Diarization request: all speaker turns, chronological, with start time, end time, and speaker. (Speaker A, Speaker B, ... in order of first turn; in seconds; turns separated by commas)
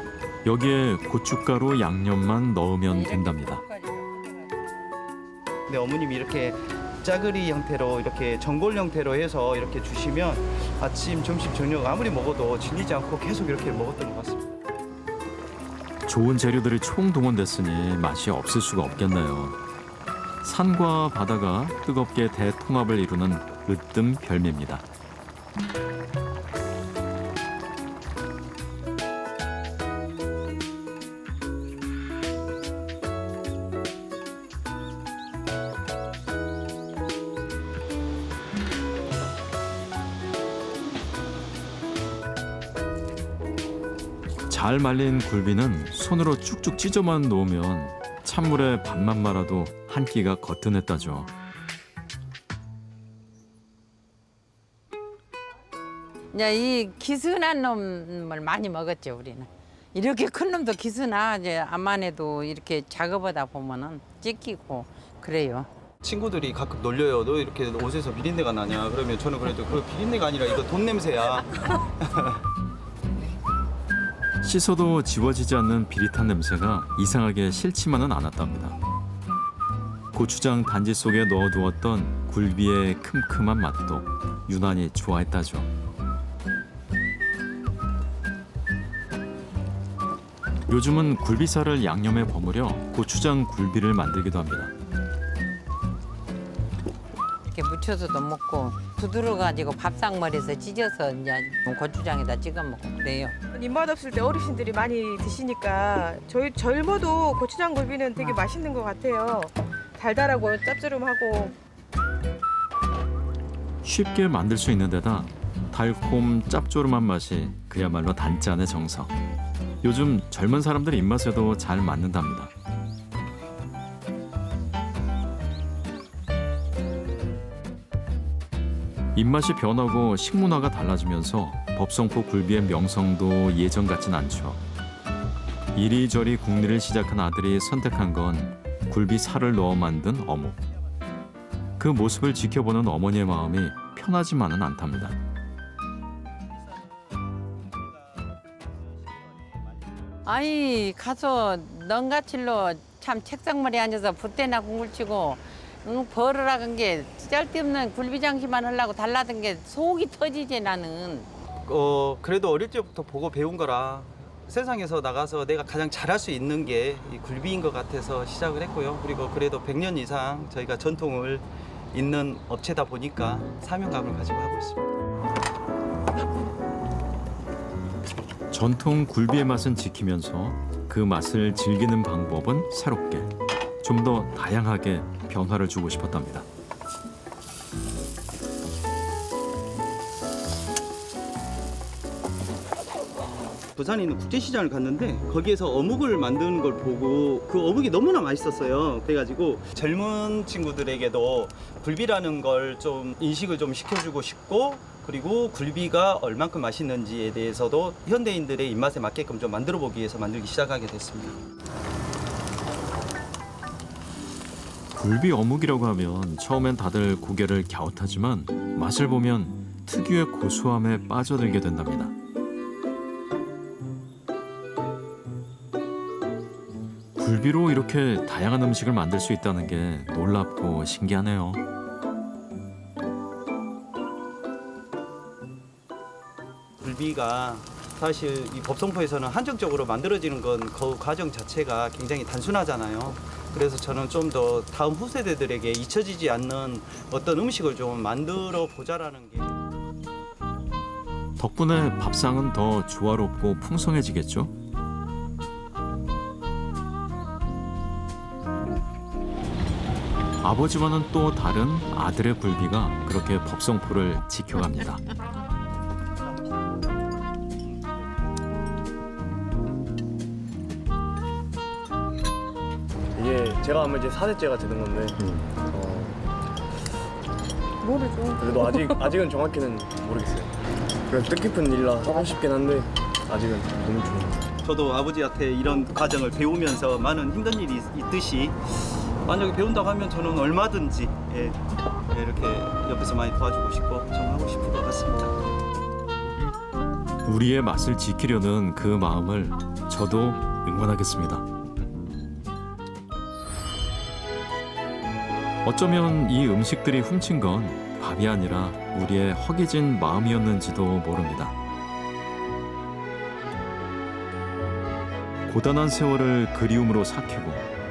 Speaker A: 0.4-3.6, Speaker B: 2.9-4.8, Speaker C: 5.7-14.5, Speaker A: 16.1-19.6, Speaker A: 20.4-24.9, Speaker A: 44.5-51.3, Speaker B: 56.3-65.7, Speaker C: 66.0-72.4, Speaker A: 74.4-78.8, Speaker A: 80.1-85.7, Speaker A: 90.7-94.7, Speaker B: 97.5-103.3, Speaker D: 103.5-111.5, Speaker B: 108.2-108.4, Speaker A: 113.8-119.1, Speaker A: 119.8-122.5, Speaker A: 129.1-134.6, Speaker A: 135.7-140.6, Speaker A: 141.8-145.2, Speaker B: 150.2-161.3, Speaker C: 161.7-174.9, Speaker A: 178.5-186.5, Speaker C: 193.8-211.4, Speaker A: 214.9-222.1, Speaker A: 227.2-231.6, Speaker C: 236.8-249.6, Speaker A: 251.4-254.5, Speaker A: 260.4-265.0, Speaker E: 273.1-276.2, Speaker D: 277.8-279.2, Speaker E: 278.4-280.5, Speaker E: 281.1-284.4, Speaker C: 284.6-291.6, Speaker C: 292.1-295.4, Speaker A: 297.2-301.4, Speaker A: 305.6-311.6, Speaker A: 315.5-317.6